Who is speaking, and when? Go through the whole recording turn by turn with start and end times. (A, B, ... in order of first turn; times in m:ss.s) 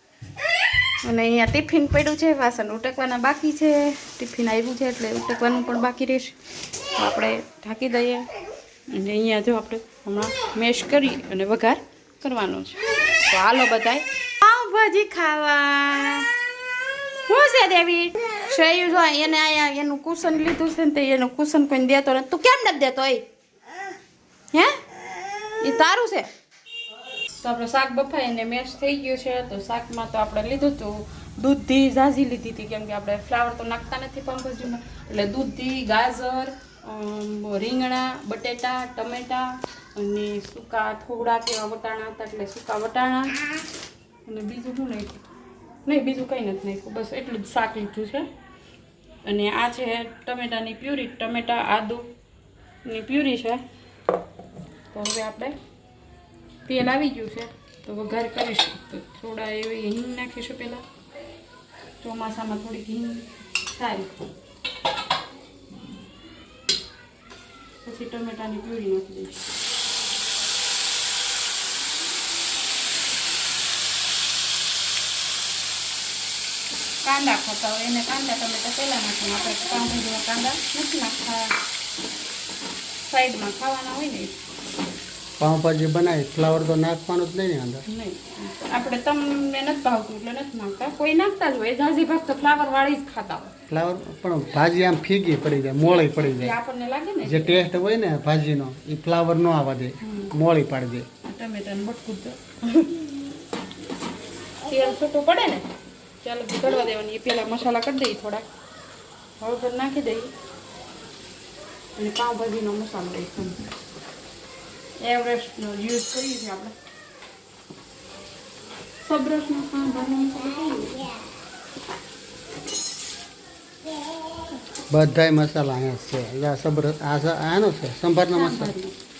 0:01.0-0:06.4 A
0:06.9-0:08.3 A
0:08.9-0:16.3 A
0:17.2-0:23.2 A
0:24.5-0:24.8 A
0:25.6-0:26.3 A
0:27.4-0:43.4 A
0:44.2-0:45.2 A
0:45.8-0:48.2 A
0:49.2-0:52.0 A
0:52.8-0:53.6 A
0:54.9-0:55.5 A
0:56.7-1:00.8 A
1:02.0-1:04.1 A
1:07.8-1:09.4 A
1:17.0-1:21.6 A
1:23.0-1:24.3 A
1:25.4-1:27.8 B
1:27.9-1:33.5 A
1:33.7-1:36.6 B
1:35.8-1:37.7 A
1:37.2-1:41.1 B
1:40.0-1:40.3 A
1:41.2-1:43.0 A
1:44.6-1:45.7 A
1:46.2-1:48.5 A
1:49.4-1:50.3 A
1:52.0-1:53.6 A
1:55.0-1:56.7 A
1:59.0-2:01.2 A
2:04.9-2:08.7 B
2:08.3-2:08.9 A